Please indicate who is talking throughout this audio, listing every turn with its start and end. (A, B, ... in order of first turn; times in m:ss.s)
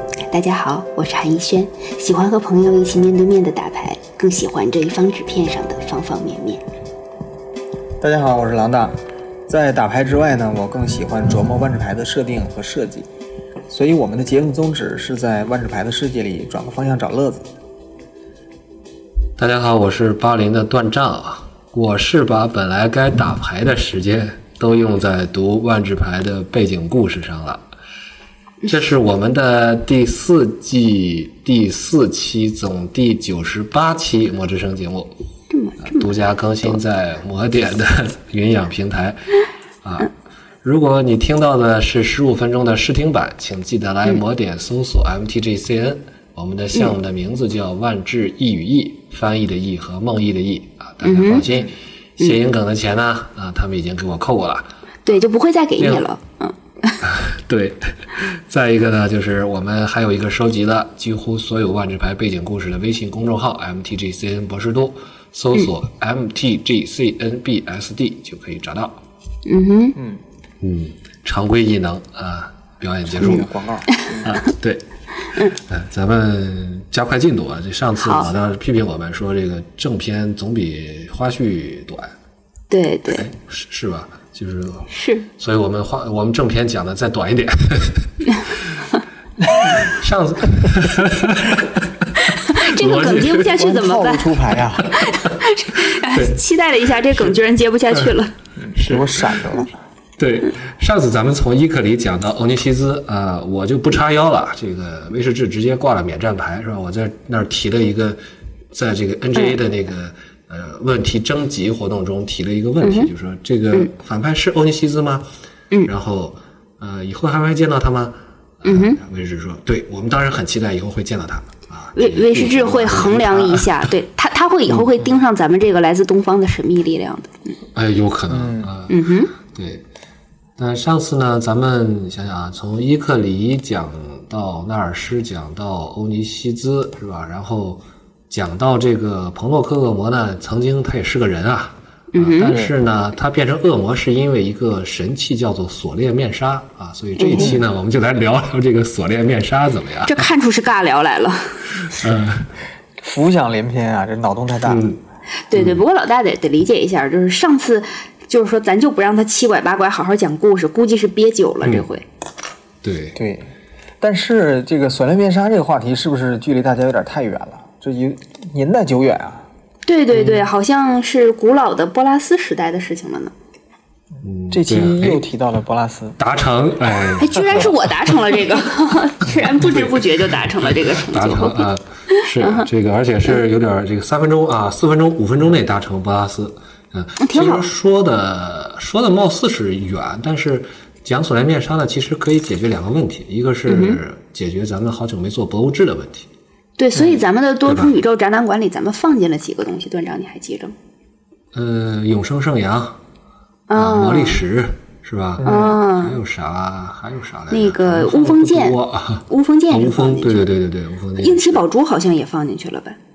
0:00.3-0:06.6 A
0:08.0-0:08.9 B
0:09.5-0:13.0 B
0:13.7-0:17.5 B
0:19.4-0:27.6 C
0:28.6-0:35.1 C
0:35.5-0:36.2 A
0:35.8-0:39.3 C
0:39.8-0:40.1 C
0:40.6-0:54.6 C
0:51.0-0:51.4 A
0:55.0-0:56.9 A
0:55.8-0:56.0 C
0:57.0-1:09.0 C
1:09.4-1:10.0 A
1:10.0-1:10.2 B
1:10.6-1:13.5 C
1:13.1-1:14.3 B
1:13.9-1:14.2 A
1:14.2-1:14.8 C
1:15.3-1:22.1 C
1:18.0-1:18.3 A
1:22.7-1:23.3 A
1:23.1-1:28.6 C
1:24.9-1:25.3 A
1:29.6-1:31.9 C
1:32.2-1:38.3 A
1:32.6-1:33.6 C
1:33.5-1:34.9 B
1:34.8-1:35.1 C
1:36.1-1:36.4 C
1:38.6-1:39.7 B
1:38.7-1:39.5 C
1:40.2-1:48.2 C
1:48.7-1:55.3 C
1:52.8-1:53.1 A
1:55.8-2:03.9 C
1:58.6-1:59.0 A
2:02.0-2:07.5 A
2:07.7-2:09.0 C
2:08.3-2:08.7 B
2:08.9-2:09.3 A
2:09.5-2:09.8 C
2:10.6-2:30.2 C
2:22.1-2:22.6 A
2:22.5-2:22.7 B
2:27.2-2:27.6 A
2:27.3-2:27.6 B
2:30.0-2:31.9 A
2:31.8-2:32.5 C
2:33.0-2:34.9 B
2:34.6-2:35.0 C
2:35.5-2:42.0 A
2:35.5-2:35.8 C
2:42.8-2:43.2 C
2:43.1-2:43.5 B
2:44.0-2:49.4 B
2:49.8-2:53.3 A
2:54.2-2:55.3 C
2:54.5-2:56.2 B
2:56.2-2:57.9 C
2:57.2-3:01.6 A
2:59.6-3:16.3 C
3:02.4-3:02.6 A
3:07.2-3:07.7 A
3:13.7-3:14.0 A
3:16.8-3:20.7 A
3:16.9-3:17.2 B
3:17.6-3:17.9 C
3:21.5-3:23.0 C
3:23.7-3:24.4 A
3:23.7-3:31.6 C
3:25.4-3:25.8 B
3:25.4-3:26.2 A
3:27.5-3:30.5 A
3:31.2-3:33.0 A